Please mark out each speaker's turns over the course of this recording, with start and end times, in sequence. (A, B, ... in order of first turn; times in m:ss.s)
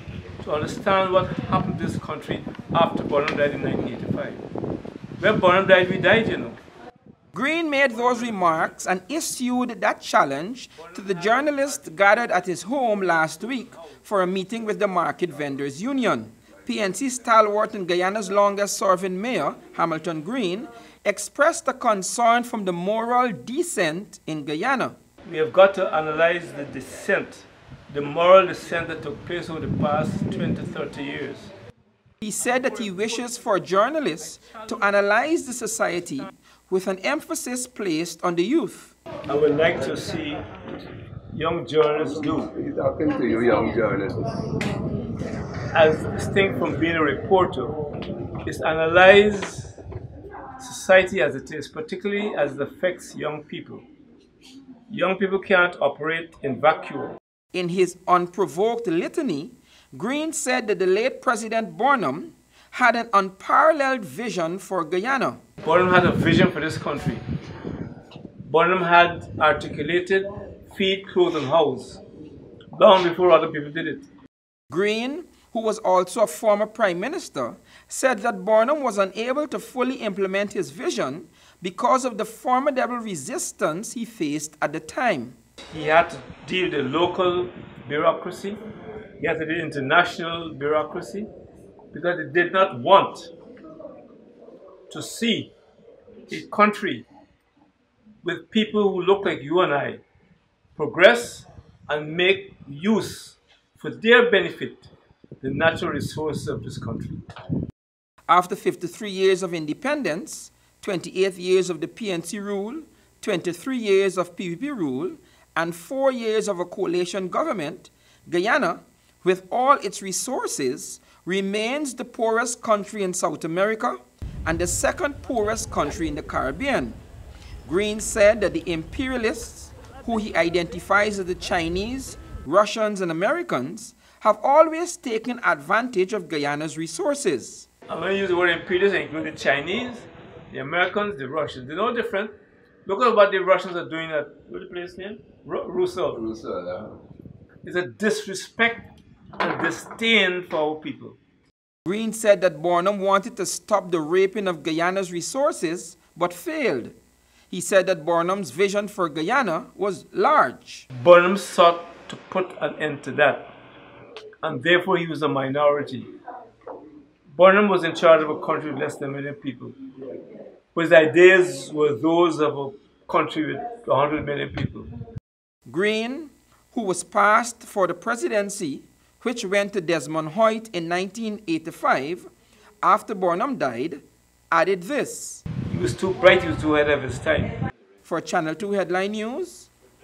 0:00.4-0:04.4 A
0:05.2-0:06.6 A
0:07.3-0:25.0 B
0:11.2-0:12.2 A
0:25.2-0:31.5 A
0:32.2-0:38.9 B
0:39.3-0:40.4 A
0:41.3-0:42.5 A
0:42.0-0:44.4 C
0:45.7-0:47.7 A
0:48.4-0:49.8 A
0:50.6-0:53.8 A
0:54.9-0:57.2 A
0:57.5-1:05.4 B
1:05.6-1:07.2 A
1:08.4-1:12.0 A
1:12.7-1:14.1 A
1:14.7-1:25.4 B
1:25.7-1:28.6 A
1:29.2-1:31.3 A
1:31.9-1:33.3 A
1:34.9-1:35.5 A
1:36.3-1:37.0 A
1:38.2-1:40.0 A
1:40.8-1:44.9 A
1:45.4-1:47.2 A
1:48.3-2:07.0 B
2:07.6-2:17.7 B
2:17.9-2:22.3 A
2:22.8-2:26.2 A
2:26.1-2:26.9 C
2:27.6-2:31.2 A
2:31.8-2:37.0 B
2:37.5-2:40.8 B
2:41.0-2:43.5 A
2:44.4-2:46.1 A
2:47.3-2:49.7 A
2:50.7-2:54.9 A
2:55.6-3:02.3 B
3:02.8-3:05.4 B
3:05.7-3:07.6 A
3:08.0-3:09.7 B